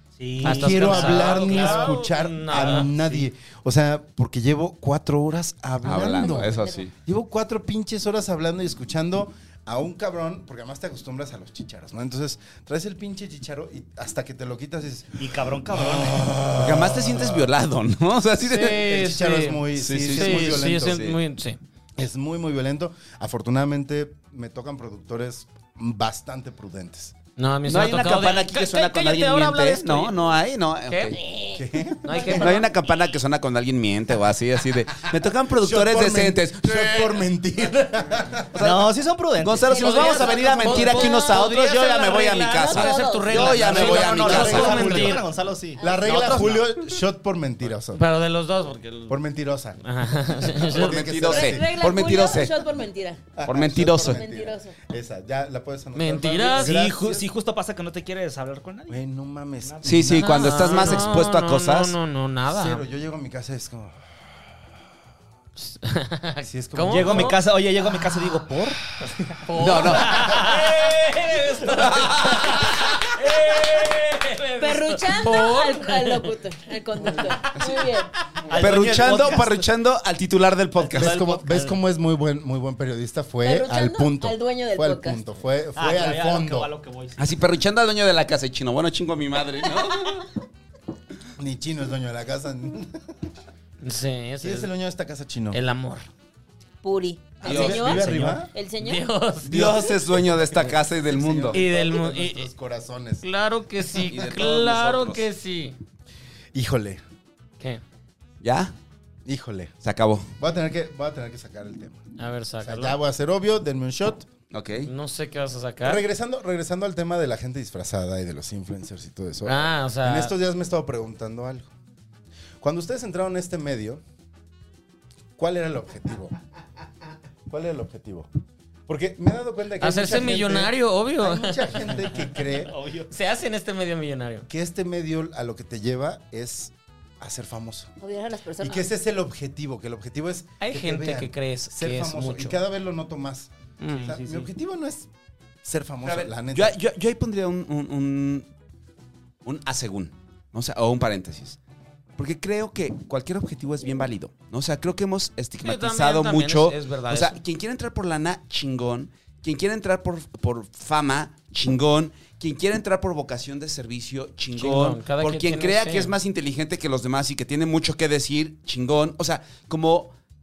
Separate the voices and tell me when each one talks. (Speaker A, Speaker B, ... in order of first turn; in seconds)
Speaker A: 0.2-1.9, 2.8-3.2, 15.2-16.3, 38.6-41.0, 43.3-46.7, 56.5-59.0, 59.6-60.0, 66.9-68.8, 70.1-70.6, 78.5-79.7, 80.8-81.2, 85.7-87.3, 97.5-98.5, 132.2-133.1, 143.9-144.5
Speaker B: 0.4-17.5, 18.5-21.1, 22.0-27.1, 31.5-32.4, 35.5-38.6, 43.8-45.2, 45.8-48.0, 49.1-52.0, 53.3-57.2, 58.9-61.2, 62.5-64.5, 66.4-67.4, 80.9-86.7, 91.4-93.1, 94.4-95.6, 97.4-98.5, 99.5-103.2, 106.5-107.0, 109.2-109.7, 110.4-112.0, 112.6-114.3, 115.8-121.7, 122.6-124.0, 125.4-126.3, 127.5-128.3, 128.9-132.7, 134.5-137.9, 138.6-143.5, 144.0-145.1, 145.6-146.8
Speaker C: 0.4-2.9, 18.5-21.6, 27.4-30.1, 30.9-32.7, 39.8-45.2, 47.9-49.2, 49.8-51.0, 55.9-56.8, 60.2-62.8, 65.6-67.4, 69.4-76.3, 93.8-94.7, 95.5-96.1, 98.8-99.8, 101.5-102.5, 103.2-105.8, 112.2-113.0, 114.8-116.0, 119.4-120.3, 129.8-131.7, 133.1-134.4, 140.6-142.6, 143.8-144.1, 155.6-157.4, 164.6-166.1
Speaker D: 5.8-6.9, 16.6-18.8, 19.8-21.2, 27.7-31.2, 32.3-37.2, 38.5-44.9, 50.6-52.5, 53.5-54.2, 59.8-62.0, 69.6-70.3, 71.8-72.6, 78.5-81.7, 87.2-90.2, 97.4-98.0, 99.5-101.6, 103.9-105.3, 108.4-108.7, 109.8-110.3, 114.5-114.9, 146.0-148.5, 149.4-151.6, 152.2-170.1
Speaker E: 6.0-6.8, 32.1-32.6, 39.8-40.1, 40.9-41.5, 42.5-43.5, 45.8-46.3, 51.2-53.2, 53.9-54.7, 74.6-78.1, 83.4-85.2, 96.8-99.1, 138.0-138.8